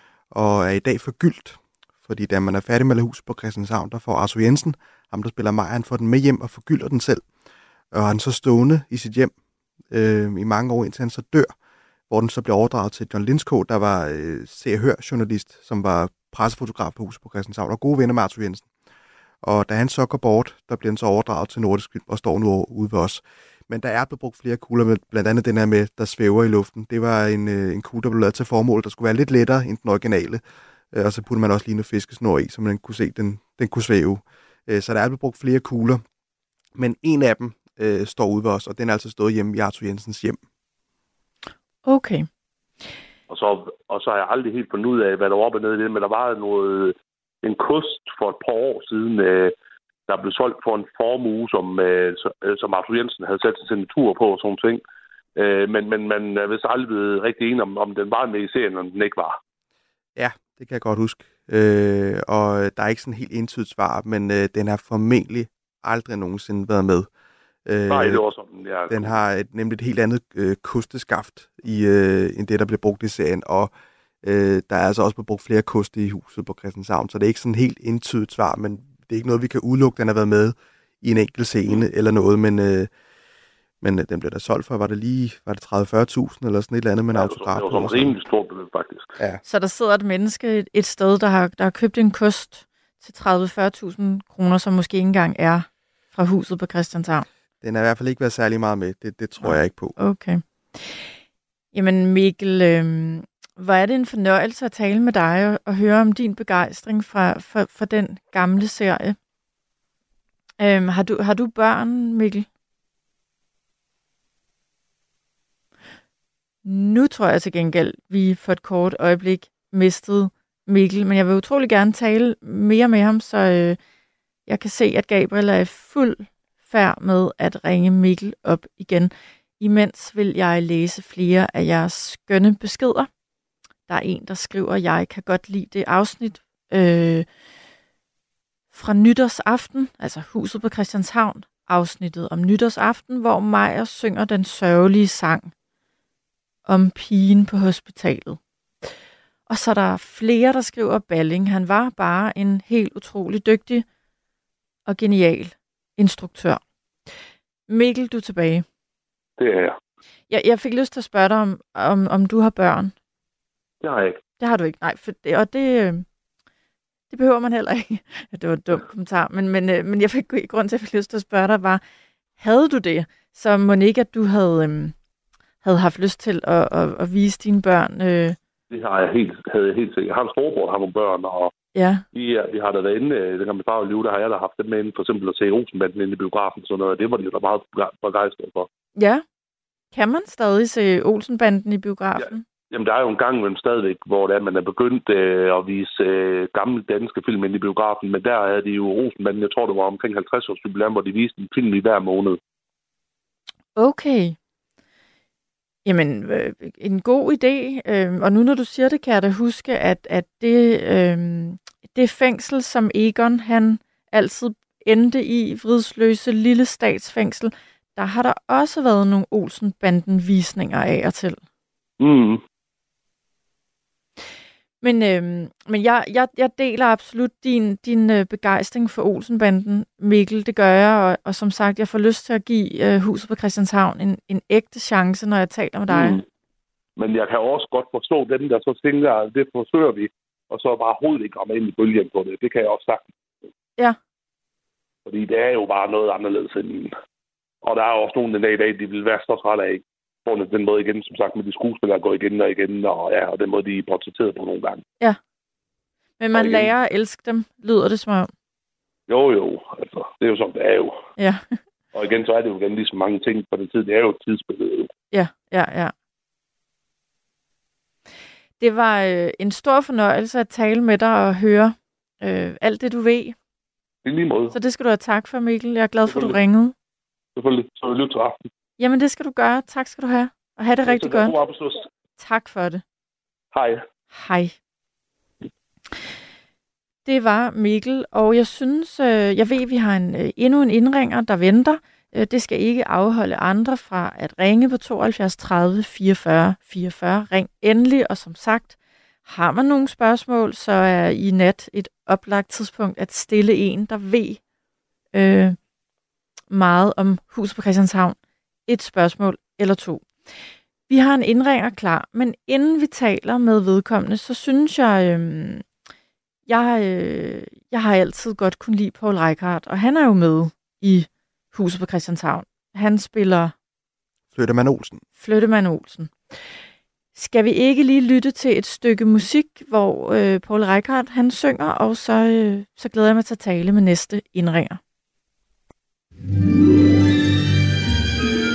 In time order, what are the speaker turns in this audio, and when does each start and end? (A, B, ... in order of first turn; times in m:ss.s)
0:00.3-0:07.3 A
0:07.9-0:09.3 A
0:09.9-0:11.5 A
0:12.1-0:18.7 A
0:19.4-0:36.0 A
0:36.8-0:40.4 A
0:41.8-0:42.3 B
0:43.3-0:49.5 C
0:50.1-0:54.8 C
0:55.4-0:59.4 C
1:00.2-1:07.1 A
1:07.6-1:08.2 A
1:07.9-1:09.1 C
1:08.9-1:22.9 A
1:23.8-1:28.2 A
1:27.1-1:29.2 C
1:29.4-1:37.2 B
1:37.6-1:40.0 A
1:39.4-1:41.1 B
1:41.7-1:49.2 B
1:50.6-1:52.5 B
1:56.6-2:03.8 B
2:04.5-2:13.1 B
2:13.9-2:17.2 B
2:18.7-2:25.5 B
2:26.6-2:28.4 B
2:29.5-2:33.8 B
2:34.8-2:37.1 B
2:37.7-2:38.6 B
2:39.4-2:39.8 C
2:40.3-2:42.9 B
2:43.8-2:44.2 C
2:44.4-2:46.1 B
2:47.1-2:51.8 B
2:52.4-2:54.9 B
2:55.6-2:58.4 B
2:58.7-3:01.5 C
3:01.7-3:02.0 B
3:02.1-3:08.7 C
3:09.0-3:09.2 B
3:09.9-3:12.4 B
3:12.2-3:22.4 C
3:23.8-3:24.4 B
3:25.8-3:41.4 B
3:42.0-3:42.4 C
3:44.8-3:56.2 B
3:55.9-3:56.2 C
3:57.0-4:03.1 C
4:05.1-4:06.9 C
4:07.6-4:14.8 C
4:16.2-4:18.3 B
4:16.3-4:16.7 C
4:19.1-4:21.0 C
4:21.2-4:21.6 B
4:21.9-4:24.9 C
4:25.1-4:25.9 B
4:28.6-4:33.4 B
4:34.0-4:34.6 C
4:34.5-4:36.7 B
4:36.1-4:36.4 C
4:37.4-4:38.4 C
4:38.8-4:41.4 B
4:40.8-4:41.8 C
4:42.2-4:42.8 B
4:43.5-4:43.8 C
4:44.1-4:44.6 B
4:47.1-5:04.4 B
5:05.1-5:05.6 B
5:06.5-5:15.6 B
5:16.5-5:23.5 B
5:24.3-5:25.0 A
5:25.2-5:26.4 B
5:27.1-5:34.8 B